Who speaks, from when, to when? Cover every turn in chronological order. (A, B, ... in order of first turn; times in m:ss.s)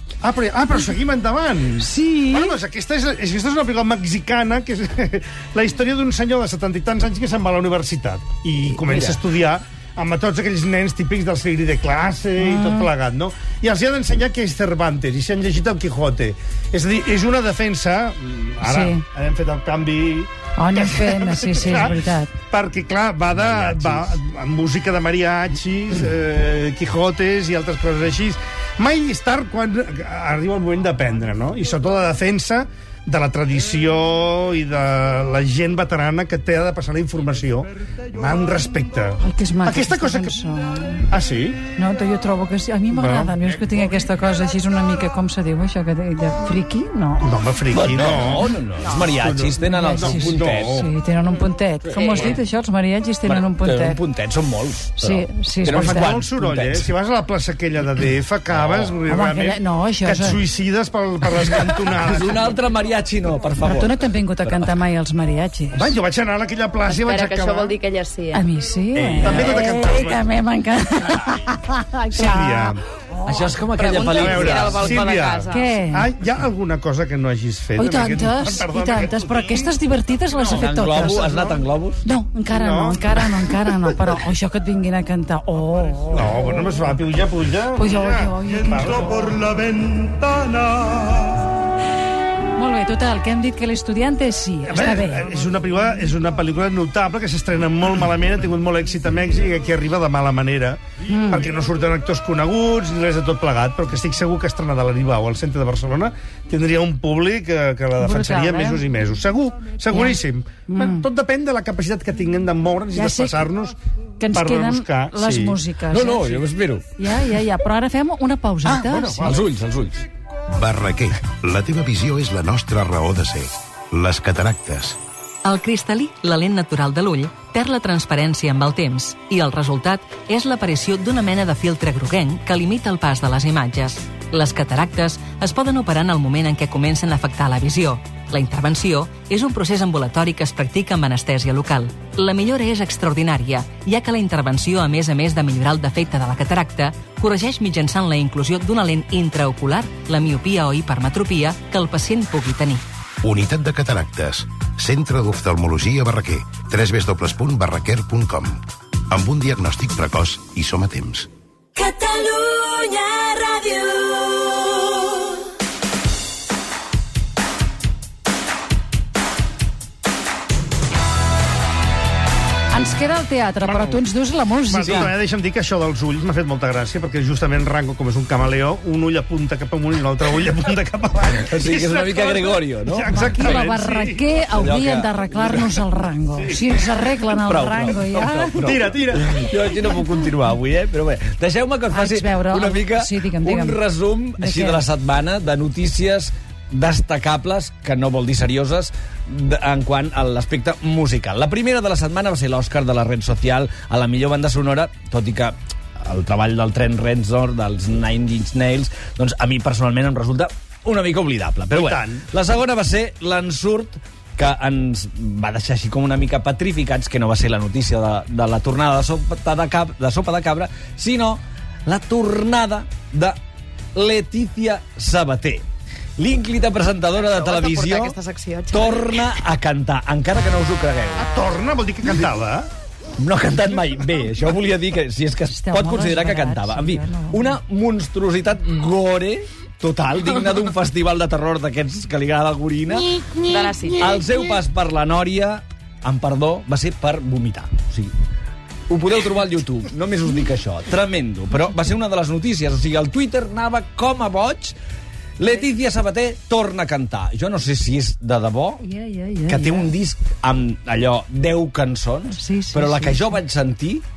0:00.2-0:40.4 A
0:01.8-0:02.5 B
0:08.8-0:09.2 C
0:12.4-0:12.9 B
0:18.6-0:19.0 B
0:20.6-0:22.3 B
0:23.3-0:24.1 C
0:39.2-0:41.1 B
0:41.1-0:41.6 A
0:41.8-0:47.3 B
0:42.9-0:43.4 A
0:47.2-0:50.9 A
0:47.7-0:50.9 C
0:49.6-0:54.0 B
0:51.8-0:52.4 C
0:53.2-0:56.9 C
0:55.0-0:56.2 B
0:55.7-1:02.6 A
0:58.5-0:59.0 C
0:59.1-1:00.4 B
1:01.4-1:04.7 C
1:03.6-1:05.9 B
1:05.7-1:07.8 A
1:06.9-1:08.4 D
1:08.3-1:13.5 B
1:08.9-1:09.6 C
1:09.2-1:10.2 A
1:12.1-1:12.8 A
1:13.2-1:15.0 C
1:13.8-1:15.7 D
1:14.1-1:19.8 A
1:15.5-1:16.1 B
1:17.8-1:21.5 B
1:20.3-1:21.5 A
1:20.5-1:22.0 C
1:22.0-1:26.7 B
1:22.5-1:23.9 A
1:26.1-1:31.5 A
1:27.8-1:29.4 B
1:32.6-1:35.3 B
1:34.7-1:53.8 A
1:41.1-1:41.4 B
1:48.0-1:48.8 B
1:50.7-1:51.0 B
1:52.9-1:53.4 B
1:54.2-1:59.4 B
1:54.3-1:55.6 A
1:55.9-1:56.8 C
1:58.6-1:59.4 A
1:59.1-2:00.0 C
2:00.5-2:05.0 E
2:05.4-2:32.8 F
2:33.2-2:41.3 E
2:41.8-2:44.5 F
2:52.7-2:55.1 B
2:53.6-2:54.1 A
2:54.6-3:04.3 A
2:54.8-2:55.1 C
3:01.4-3:03.6 C
3:03.1-3:08.5 B
3:04.5-3:05.7 C
3:06.4-3:07.0 A
3:07.4-3:43.4 C
3:08.6-3:09.4 A
3:11.9-3:13.9 B
3:14.4-3:14.8 B
3:31.7-3:32.3 A
3:43.9-3:45.6 C
3:46.2-3:48.2 C
3:47.1-3:49.2 D
3:48.7-3:51.3 C
3:51.2-3:52.7 A
3:53.2-4:03.3 C
3:55.4-3:57.6 B
4:03.4-4:04.2 D
4:04.0-4:08.1 C
4:08.9-4:14.8 C
4:15.4-4:18.8 C
4:18.8-4:19.9 B
4:19.5-4:24.0 C
4:22.3-4:23.3 B